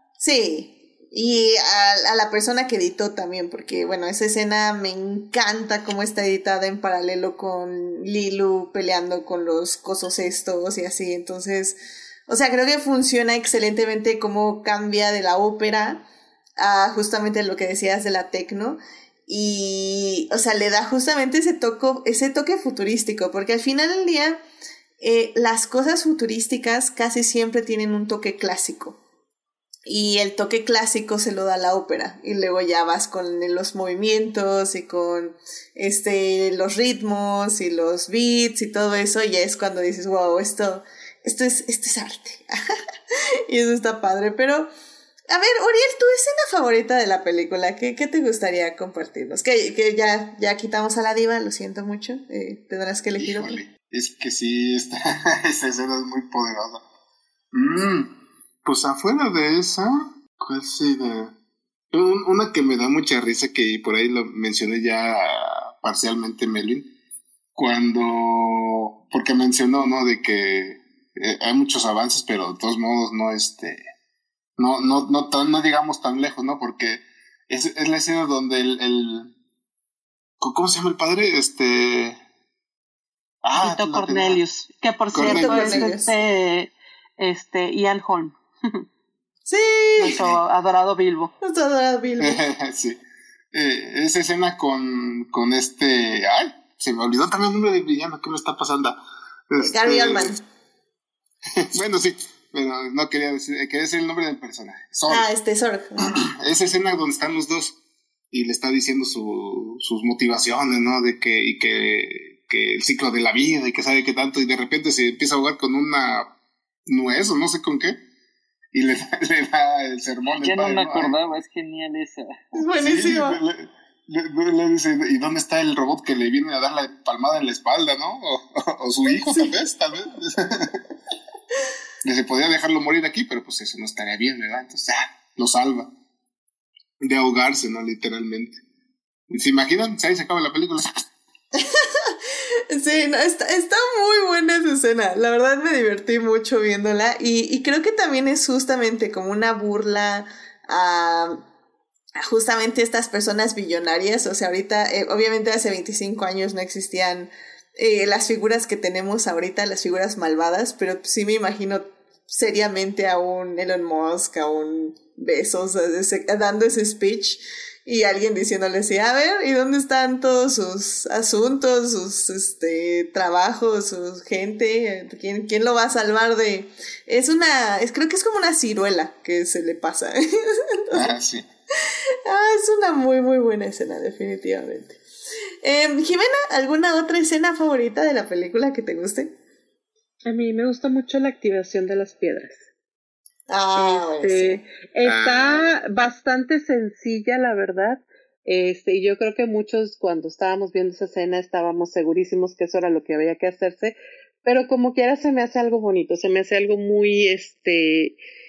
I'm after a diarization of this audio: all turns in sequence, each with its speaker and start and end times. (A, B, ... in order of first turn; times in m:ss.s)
0:00.2-0:16.0 A
0:16.6-0:24.4 A
0:25.0-0:29.0 A
0:29.8-0:42.6 A
0:43.1-0:44.7 A
0:45.3-0:53.6 A
0:53.2-0:56.8 B
0:57.5-1:01.3 B
1:01.9-1:06.9 B
1:07.5-1:13.8 B
1:14.6-1:19.3 B
1:20.4-1:22.2 B
1:23.4-1:24.4 B
1:23.6-1:28.8 C
1:25.1-1:25.9 B
1:25.2-1:26.1 A
1:29.4-1:30.2 A
1:30.0-1:31.3 C
1:31.4-1:32.4 A
1:32.2-1:33.0 B
1:33.5-1:40.4 B
1:39.6-1:40.4 A
1:41.7-1:45.3 B
1:45.1-1:46.2 A
1:46.0-1:47.8 B
1:48.3-1:56.4 B
1:56.9-1:58.0 B
1:58.7-2:01.2 B
2:00.4-2:02.5 D
2:02.5-2:03.4 A
2:02.7-2:10.8 B
2:09.0-2:09.6 A
2:12.0-2:15.9 B
2:17.0-2:18.6 B
2:19.3-2:21.0 B
2:21.5-2:22.2 A
2:22.7-2:31.4 A
2:32.2-3:01.1 A
3:00.9-3:01.4 B
3:02.2-3:05.0 A
3:05.6-3:09.3 A
3:10.2-3:12.6 C
3:13.5-3:14.6 A
3:13.7-3:28.2 C
3:15.0-3:15.7 B